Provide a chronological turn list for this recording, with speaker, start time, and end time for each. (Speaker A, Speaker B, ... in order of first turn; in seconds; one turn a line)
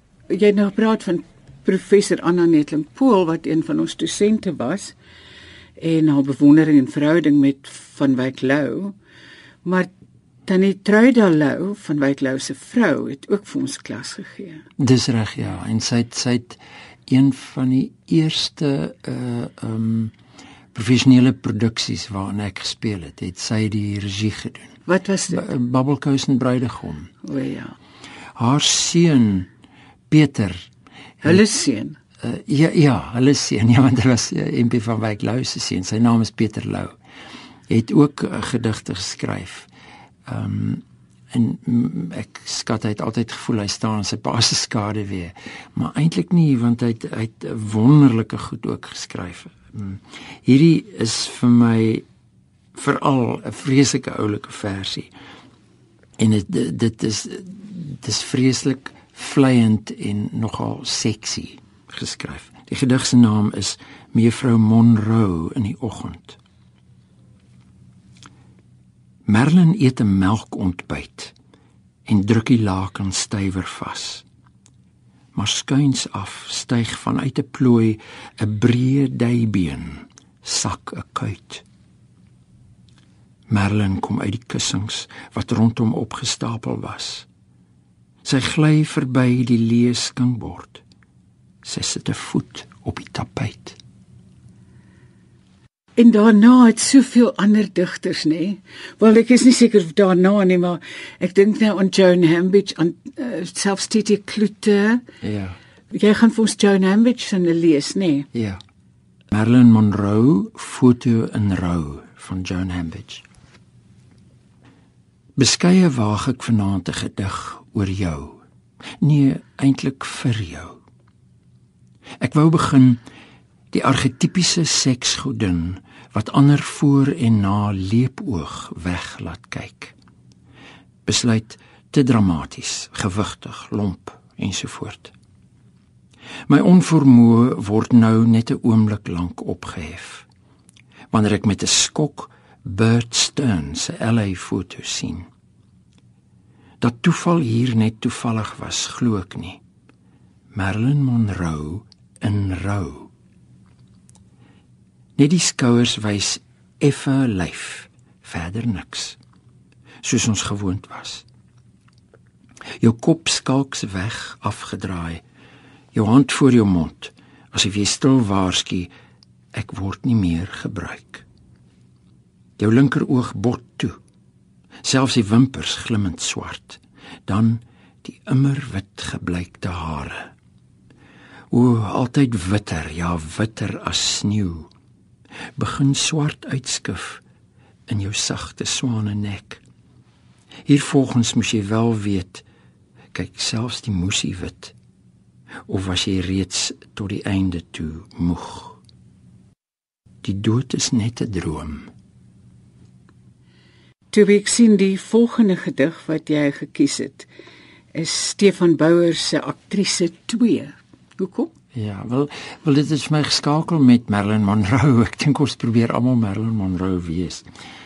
Speaker A: 0.3-5.0
Speaker A: 5.8-8.9
Speaker A: 9.6-9.9
Speaker A: 10.4-14.6
Speaker B: 14.8-20.1
Speaker B: 20.7-24.8
Speaker A: 24.9-25.4
Speaker B: 25.3-27.1
Speaker A: 27.2-27.7
Speaker B: 28.3-29.5
Speaker B: 30.1-30.7
Speaker A: 31.2-32.0
Speaker B: 32.2-37.0
Speaker B: 37.7-39.7
Speaker B: 40.2-52.0
Speaker B: 52.7-55.1
Speaker B: 56.2-66.4
Speaker B: 69.2-71.3
Speaker B: 72.0-74.2
Speaker B: 75.3-81.6
Speaker B: 83.5-87.3
Speaker B: 88.2-90.8
Speaker B: 91.6-93.8
Speaker A: 96.0-105.0
Speaker B: 105.2-105.6
Speaker A: 105.9-108.3
Speaker B: 108.3-108.6
Speaker B: 109.3-113.2
Speaker B: 115.3-118.4
Speaker B: 119.0-120.8
Speaker B: 122.2-123.0
Speaker B: 123.7-129.9
Speaker B: 131.1-135.1
Speaker B: 136.5-140.2
Speaker B: 141.1-145.3
Speaker B: 146.8-149.6
Speaker B: 150.5-153.1
Speaker B: 155.2-159.2
Speaker B: 160.0-161.2
Speaker B: 162.8-165.2
Speaker B: 165.9-168.9
Speaker B: 169.5-171.2
Speaker B: 172.6-174.0
Speaker B: 174.8-180.3
Speaker B: 181.5-184.7
Speaker B: 185.6-187.2
Speaker B: 187.9-189.6
Speaker B: 190.7-192.4
Speaker B: 193.1-194.7
Speaker B: 195.7-198.8
Speaker B: 200.2-201.9
Speaker A: 204.1-207.3
Speaker A: 207.9-211.5
Speaker B: 211.7-217.5